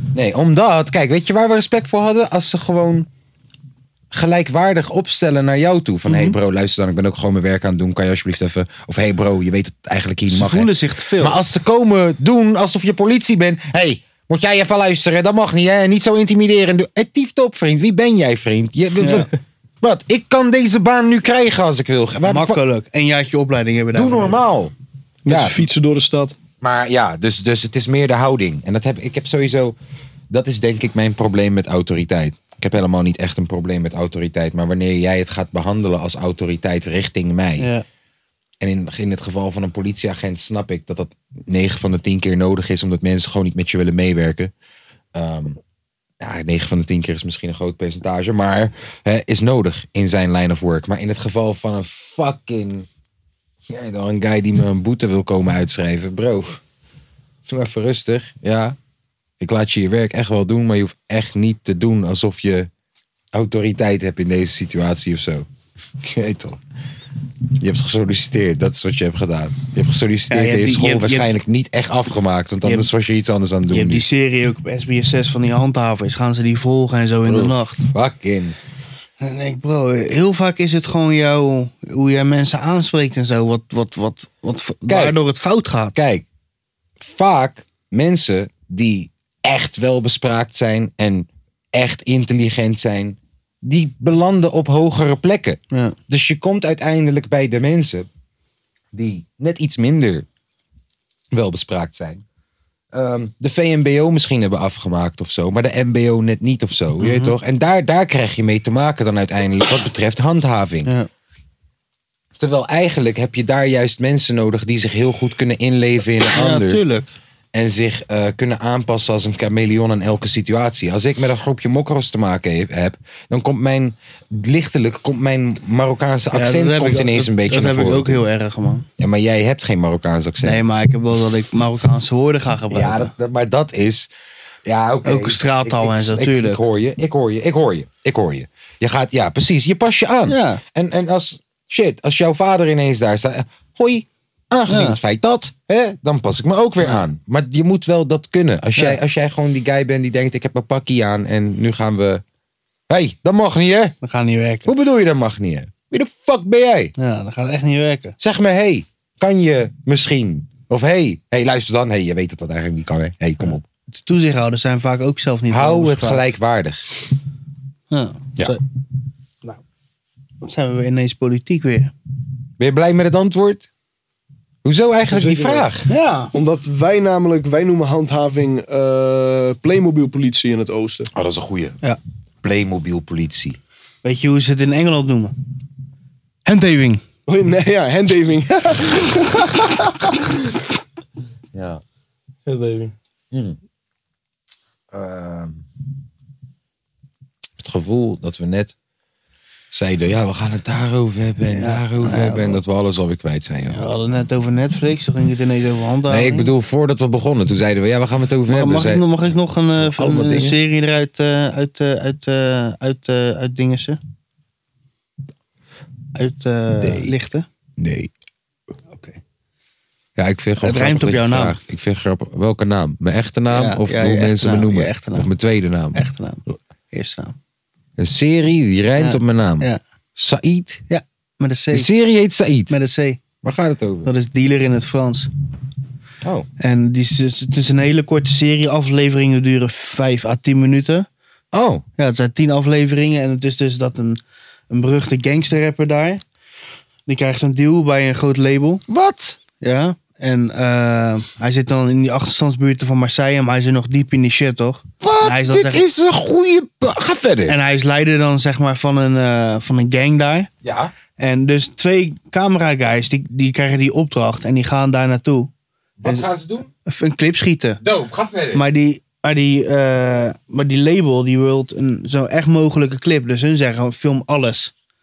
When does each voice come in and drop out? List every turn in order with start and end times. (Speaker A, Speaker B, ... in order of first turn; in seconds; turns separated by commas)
Speaker A: 0.1-3.1, Speaker A: 4.1-19.3, Speaker B: 6.1-6.4, Speaker B: 10.3-11.4, Speaker B: 19.0-19.3, Speaker A: 19.8-22.6, Speaker B: 22.2-24.4, Speaker A: 23.9-24.7, Speaker C: 25.2-26.4, Speaker A: 25.3-25.6, Speaker A: 26.6-29.8, Speaker A: 30.3-37.7, Speaker B: 37.6-37.8, Speaker A: 38.6-44.5, Speaker A: 45.1-45.6, Speaker A: 46.2-52.9, Speaker A: 53.7-56.6, Speaker A: 57.5-58.8, Speaker A: 59.4-62.7, Speaker A: 63.3-65.5, Speaker A: 66.0-66.6, Speaker A: 67.6-74.1, Speaker B: 70.3-71.3, Speaker B: 72.6-72.9, Speaker B: 73.7-77.9, Speaker A: 77.2-78.5, Speaker B: 79.2-86.0, Speaker A: 84.9-85.2, Speaker A: 85.9-86.2, Speaker A: 87.0-98.1, Speaker A: 98.9-100.2, Speaker A: 101.3-102.2, Speaker A: 102.9-110.9, Speaker B: 107.0-107.3, Speaker A: 112.4-116.8, Speaker B: 116.3-117.1, Speaker A: 117.5-128.2, Speaker B: 126.3-128.8, Speaker A: 129.0-130.6, Speaker B: 130.4-133.1, Speaker A: 132.7-134.1, Speaker A: 134.6-152.2, Speaker B: 135.0-136.6, Speaker B: 140.3-140.6, Speaker B: 144.7-145.0, Speaker A: 152.9-153.9, Speaker B: 154.0-154.7, Speaker A: 154.7-156.9, Speaker B: 157.0-158.2, Speaker A: 158.2-163.6, Speaker B: 163.9-166.3, Speaker A: 165.5-167.1, Speaker B: 167.9-168.6, Speaker B: 170.4-171.9, Speaker A: 172.6-173.7, Speaker A: 174.6-175.9, Speaker C: 175.1-175.7, Speaker B: 175.9-176.3, Speaker C: 176.3-181.1, Speaker A: 181.1-181.8, Speaker A: 182.4-183.6, Speaker B: 184.0-185.3, Speaker B: 186.4-187.0, Speaker C: 187.3-190.2, Speaker A: 191.5-191.8, Speaker C: 192.4-192.9, Speaker A: 193.3-193.6, Speaker A: 194.9-195.6, Speaker A: 197.6-198.7, Speaker A: 199.7-203.9, Speaker B: 201.5-202.6, Speaker B: 203.7-206.5, Speaker A: 206.1-209.1, Speaker B: 208.5-214.0, Speaker A: 209.8-210.6, Speaker B: 216.1-217.4, Speaker A: 216.8-217.1, Speaker A: 217.8-218.1, Speaker B: 218.9-219.2, Speaker A: 220.2-226.0, Speaker B: 220.6-221.6, Speaker B: 223.5-225.3, Speaker B: 225.9-227.3, Speaker A: 228.0-230.8, Speaker B: 229.0-229.8, Speaker B: 230.9-231.9, Speaker A: 231.7-232.8, Speaker B: 232.7-233.2, Speaker A: 233.4-234.1, Speaker B: 234.0-235.3, Speaker A: 236.2-236.5, Speaker B: 236.6-241.1, Speaker A: 241.5-241.8, Speaker B: 242.0-244.2, Speaker B: 244.7-246.2, Speaker B: 247.1-248.8, Speaker A: 248.9-249.4, Speaker B: 249.6-255.9, Speaker A: 255.0-257.6, Speaker B: 257.5-260.5, Speaker A: 260.6-260.9, Speaker B: 261.2-265.5, Speaker A: 266.0-266.7, Speaker B: 266.9-267.8, Speaker A: 267.8-268.6, Speaker B: 268.5-274.7